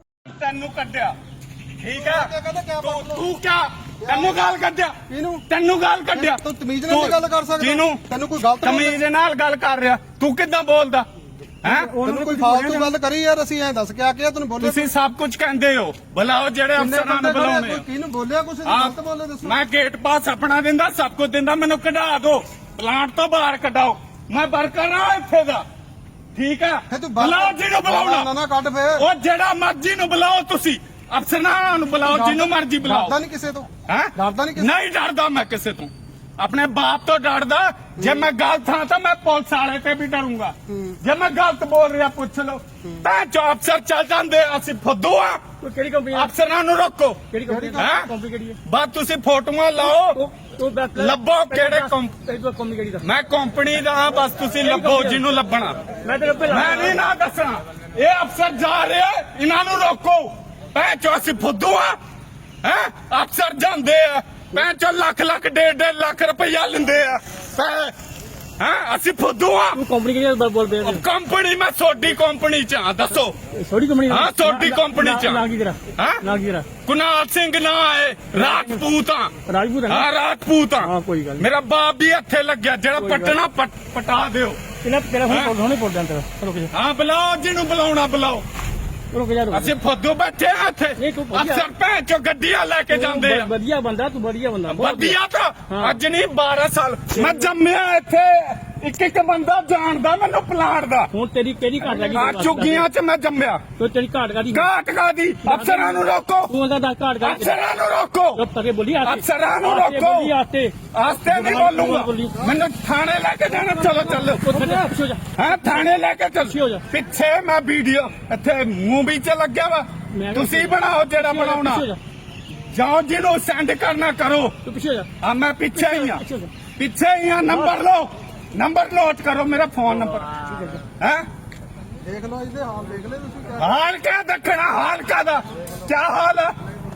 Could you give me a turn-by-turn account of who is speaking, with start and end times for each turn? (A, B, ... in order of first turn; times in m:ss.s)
0:00.3-0:01.1 A
0:01.8-0:02.3 A
0:01.9-0:03.2 B
0:02.8-0:05.0 A
0:05.1-0:05.4 B
0:05.5-0:08.0 A
0:06.1-0:09.0 B
0:08.6-0:11.0 A
0:11.6-0:12.0 A
0:11.6-0:14.9 B
0:11.7-0:12.9 C
0:14.6-0:17.8 A
0:16.8-0:19.6 B
0:18.6-0:25.6 A
0:26.3-0:28.3 A
0:26.9-0:29.0 B
0:29.0-0:33.1 A
0:32.1-0:34.7 B
0:33.9-0:45.5 A
0:45.6-0:46.3 C
0:46.1-0:48.1 A
0:47.3-0:48.6 C
0:47.5-0:47.9 B
0:48.6-0:50.2 A
0:49.8-0:53.0 C
0:51.0-0:52.2 A
0:53.0-0:55.8 A
0:54.6-0:55.2 C
0:56.0-0:57.0 C
0:56.5-1:02.0 A
1:02.6-1:07.9 A
1:08.6-1:09.8 A
1:09.7-1:11.0 C
1:10.8-1:13.4 A
1:13.5-1:16.7 C
1:14.1-1:15.4 A
1:16.0-1:16.2 A
1:16.8-1:19.3 A
1:18.3-1:18.8 C
1:19.5-1:20.1 C
1:19.9-1:24.6 A
1:20.8-1:21.4 C
1:23.0-1:23.4 C
1:24.8-1:26.7 C
1:25.3-1:25.5 A
1:26.7-1:28.4 A
1:29.1-1:29.7 C
1:29.5-1:33.5 A
1:31.0-1:31.6 C
1:32.9-1:35.2 C
1:34.7-1:41.1 A
1:35.7-1:36.0 C
1:37.1-1:37.5 C
1:41.1-1:42.8 C
1:41.8-1:43.6 A
1:43.8-1:44.7 C
1:44.5-1:46.5 A
1:45.4-1:47.6 C
1:47.2-1:48.4 A
1:48.4-1:52.4 C
1:49.0-1:50.3 A
1:50.9-1:54.6 A
1:54.4-1:55.8 C
1:55.4-2:01.8 A
1:56.5-1:56.8 C
2:00.1-2:02.0 C
2:02.7-2:04.6 A
2:04.6-2:05.1 C
2:05.2-2:06.2 A
2:05.7-2:06.5 C
2:06.8-2:10.4 A
2:07.5-2:07.7 C
2:10.5-2:10.8 C
2:11.0-2:11.2 A
2:12.0-2:13.7 B
2:13.6-2:16.5 A